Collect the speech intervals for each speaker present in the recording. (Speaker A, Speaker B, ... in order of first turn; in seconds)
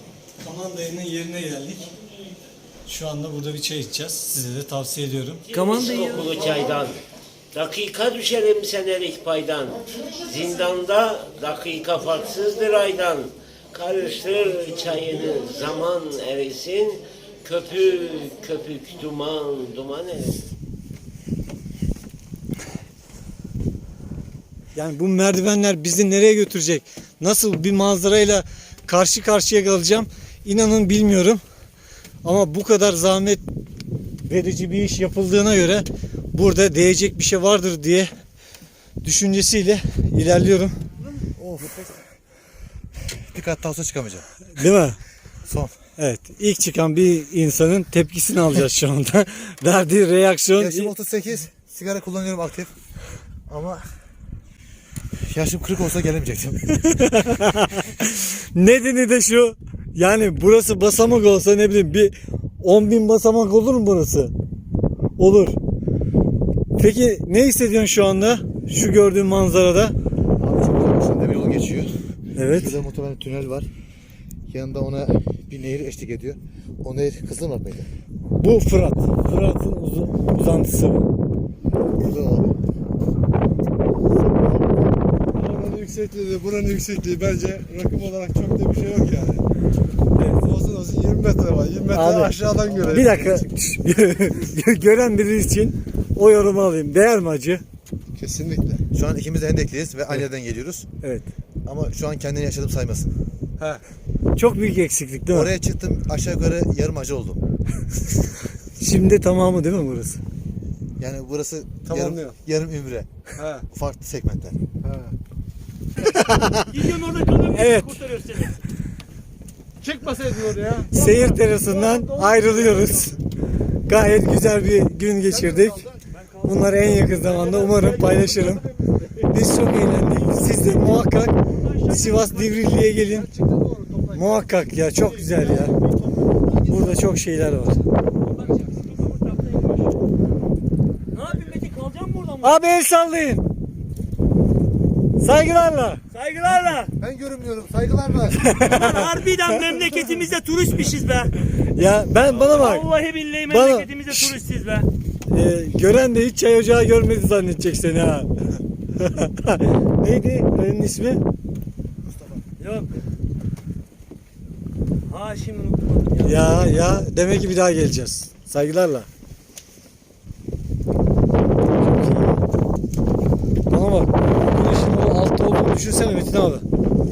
Speaker A: 0.4-1.9, 2.9-5.6, 24.8-31.4, 32.2-33.4, 34.2-38.1, 39.0-40.8, 44.5-45.0, 46.0-50.9, 56.8-64.3, 65.2-65.6, 66.8-70.0, 72.4-72.8, 78.4-81.1, 90.2-90.5, 91.9-97.6, 104.4-105.5, 108.8-110.2, 111.9-112.3, 116.1-116.7, 117.5-118.1, 120.9-123.2, 123.9-125.9, 126.4-128.7, 129.2-133.3, 134.1-135.8, 136.6-137.8, 142.4-143.4, 145.2-146.0, 148.5-148.9, 151.7-152.9, 153.5-154.3, 155.3-158.3, 159.0-161.2, 166.2-169.1, 171.8-172.4, 173.7-176.7
Speaker B: 5.5-7.0, 7.5-20.4
Speaker C: 5.6-6.7, 116.7-118.6, 126.1-128.4, 130.4-133.0, 138.3-139.9, 141.1-142.6, 146.1-146.9, 148.5-151.4, 152.2-154.9, 162.6-163.0, 165.1-167.0
Speaker D: 41.4-41.9, 43.3-44.2, 45.5-45.8, 50.5-52.7, 53.5-53.9, 55.3-56.6, 70.4-71.9, 72.5-73.7, 74.5-77.9, 82.0-82.6, 92.6-93.3, 98.9-100.9, 101.7-103.1, 105.3-107.4, 111.0-113.1, 113.7-114.6, 147.0-148.4
Speaker E: 85.9-88.4, 90.6-91.9, 92.5-93.1